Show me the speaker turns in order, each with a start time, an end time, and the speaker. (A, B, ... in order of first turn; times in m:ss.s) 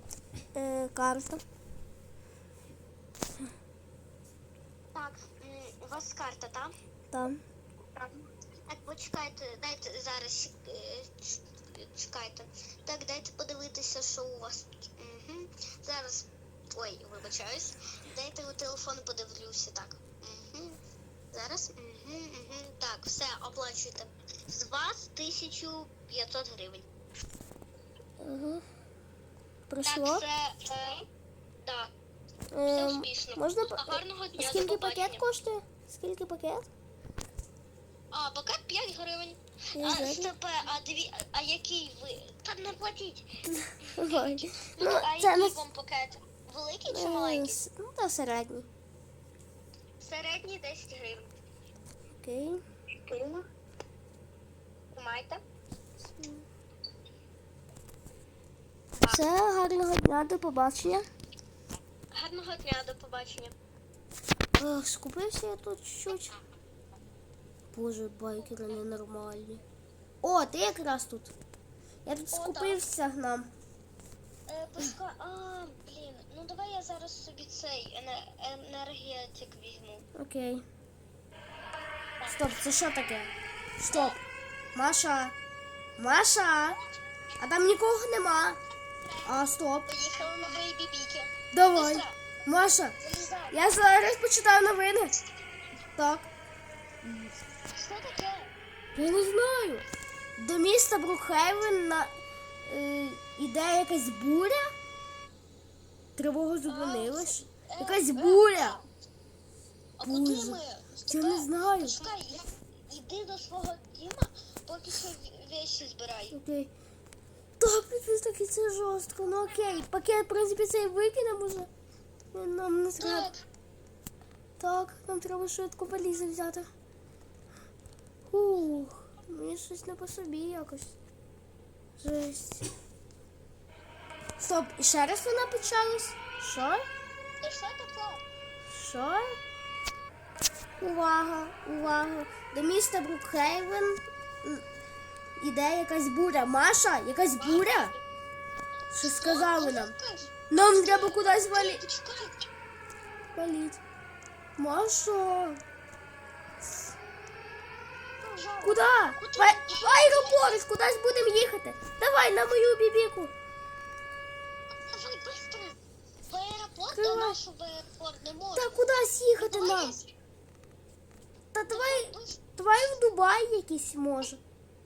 0:00.5-0:01.4 A
0:04.9-0:06.7 B
0:07.1-0:07.4 A
0:08.7-0:20.8 B
0:21.3-0:26.9 B
0:28.2-0:28.6 A
0:29.7-0:30.2 A
0:29.8-0:31.0 B
0:31.6-0:31.9 B
0:32.5-0:36.7 A
0:32.7-0:35.2 B
0:38.1-0:43.4 B
0:39.7-0:40.3 A
0:43.4-0:45.6 A
0:43.9-0:47.5 B
0:46.9-0:48.7 A
0:50.0-0:51.3 B
0:52.2-0:52.6 A
0:53.0-0:53.4 B
0:54.9-0:55.4 B
0:56.1-0:56.4 A
0:59.0-0:59.2 B
0:59.1-1:01.0 A
1:02.1-1:03.5 B
1:04.6-1:06.4 A
1:07.7-1:09.6 A
1:08.4-1:08.8 B
1:10.2-1:11.3 A
1:12.0-1:13.5 A
1:12.3-1:12.8 B
1:14.5-1:20.1 B
1:20.1-1:20.6 A
1:22.3-1:24.2 A
1:23.9-1:24.2 B
1:24.7-1:25.3 A
1:26.0-1:26.8 A
1:27.4-1:28.6 A
1:29.2-1:29.9 A
1:29.9-1:32.3 B
1:31.5-1:33.0 A
1:33.0-1:33.6 B
1:33.5-1:35.1 A
1:36.0-1:36.3 A
1:37.0-1:37.3 A
1:37.7-1:38.5 B
1:38.9-1:39.8 A
1:40.4-1:42.1 A
1:42.6-1:44.7 A
1:46.2-1:48.8 A
1:46.6-1:48.8 B
1:50.0-1:56.4 B
1:50.0-1:52.0 A
1:56.3-1:56.7 A
1:57.6-2:01.7 A
2:02.3-2:03.3 A
2:03.0-2:03.4 B
2:04.6-2:06.7 A
2:08.2-2:11.0 A
2:12.0-2:12.7 A
2:14.4-2:16.8 A
2:17.4-2:18.2 B
2:18.7-2:19.2 A
2:20.8-2:24.6 A
2:25.4-2:27.9 A
2:27.4-2:28.0 B
2:28.9-2:29.9 A
2:29.1-2:32.4 B
2:30.5-2:31.8 A
2:33.3-2:33.8 A
2:34.6-2:35.6 A
2:38.2-2:40.5 B
2:38.6-2:43.3 A
2:44.7-2:45.8 B
2:46.3-2:48.8 B
2:46.9-2:47.4 A
2:48.5-2:50.0 A
2:49.4-2:50.1 B
2:51.5-2:54.4 A
2:51.7-2:52.4 B